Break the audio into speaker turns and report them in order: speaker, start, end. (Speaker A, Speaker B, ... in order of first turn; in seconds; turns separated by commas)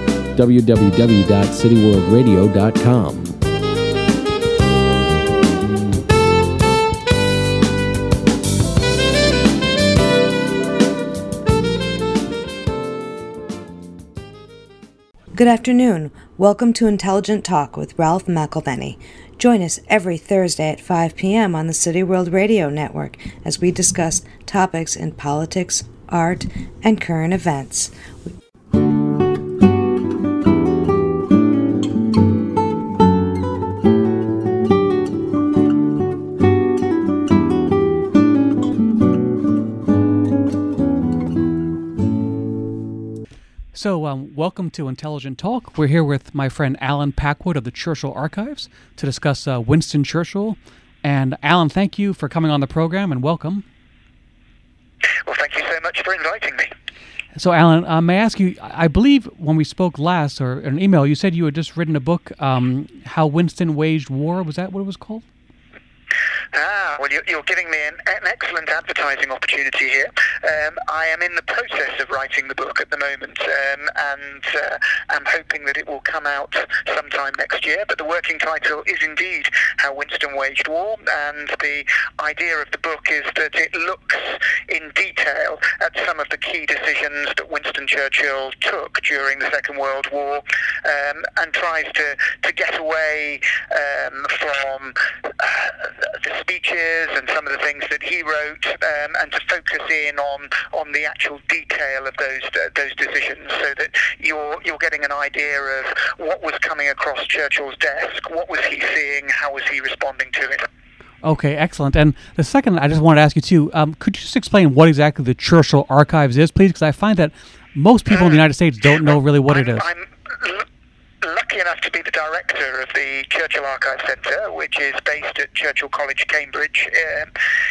Speaker A: 0.3-3.4, Speaker B: 15.3-28.3, Speaker C: 43.7-53.6, Speaker D: 55.2-56.7, Speaker C: 57.4-65.2, Speaker D: 66.5-110.7, Speaker C: 111.2-119.9, Speaker D: 118.1-118.4, Speaker D: 119.0-120.7, Speaker D: 121.2-127.3